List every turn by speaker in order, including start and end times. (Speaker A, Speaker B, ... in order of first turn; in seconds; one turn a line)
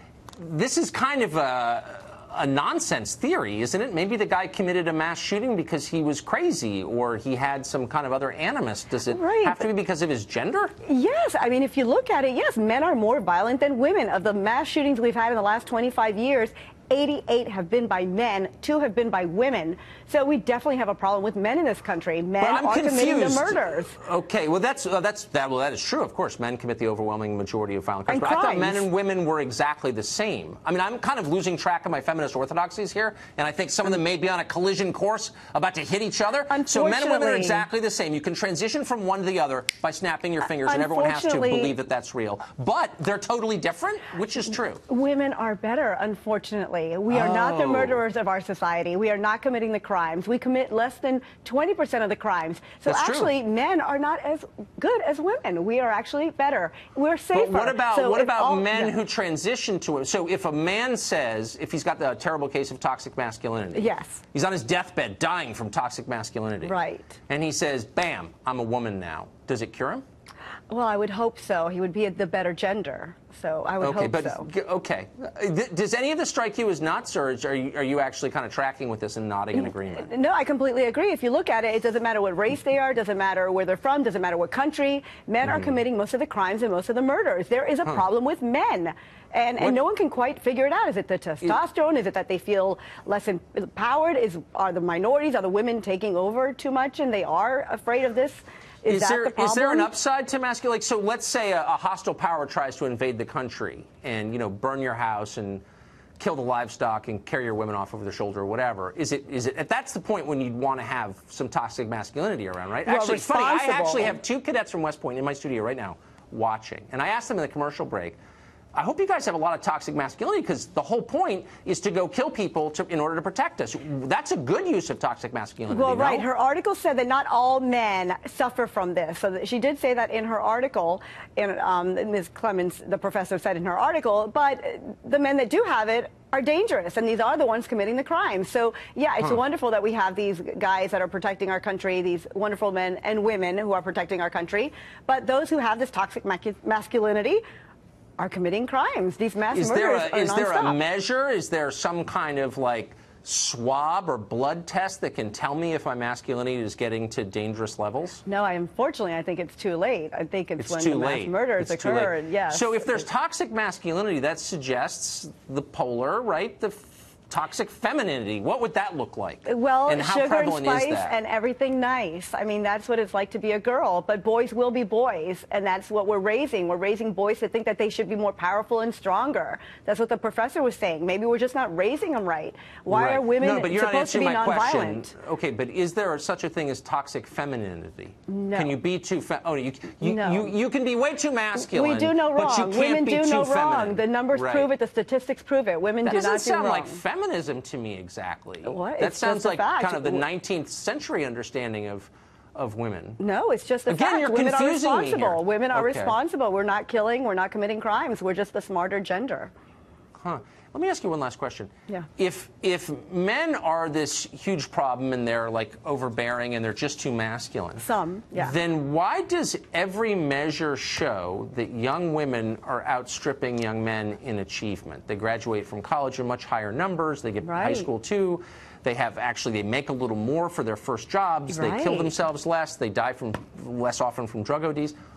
Speaker A: 0.3-10.7
Speaker B: 9.1-9.6
Speaker B: 10.8-24.0
Speaker A: 22.4-44.8
Speaker B: 28.1-28.8
Speaker B: 36.5-37.6
Speaker B: 40.4-41.7
Speaker B: 44.9-58.9
Speaker A: 47.1-48.0
Speaker A: 52.9-53.3
Speaker A: 57.3-66.7
Speaker B: 63.7-64.2
Speaker B: 66.6-67.2
Speaker A: 67.3-70.0
Speaker B: 70.7-74.5
Speaker A: 73.8-80.1
Speaker B: 79.6-99.9
Speaker A: 85.4-85.7
Speaker A: 98.9-105.6
Speaker A: 106.2-118.2
Speaker B: 112.8-114.2
Speaker A: 118.7-126.3
Speaker B: 125.7-147.4
Speaker B: 148.2-150.8
Speaker A: 149.5-158.2
Speaker B: 158.2-163.0
Speaker A: 160.6-171.1
Speaker B: 169.4-185.1
Speaker A: 182.9-194.7
Speaker B: 188.3-188.8
Speaker B: 190.0-190.5
Speaker B: 191.5-197.0
Speaker A: 196.0-203.2
Speaker B: 198.6-200.2
Speaker B: 203.2-209.5
Speaker A: 203.9-206.2
Speaker A: 210.1-234.9
Speaker B: 217.8-218.5
Speaker B: 227.4-227.9
Speaker B: 231.5-232.1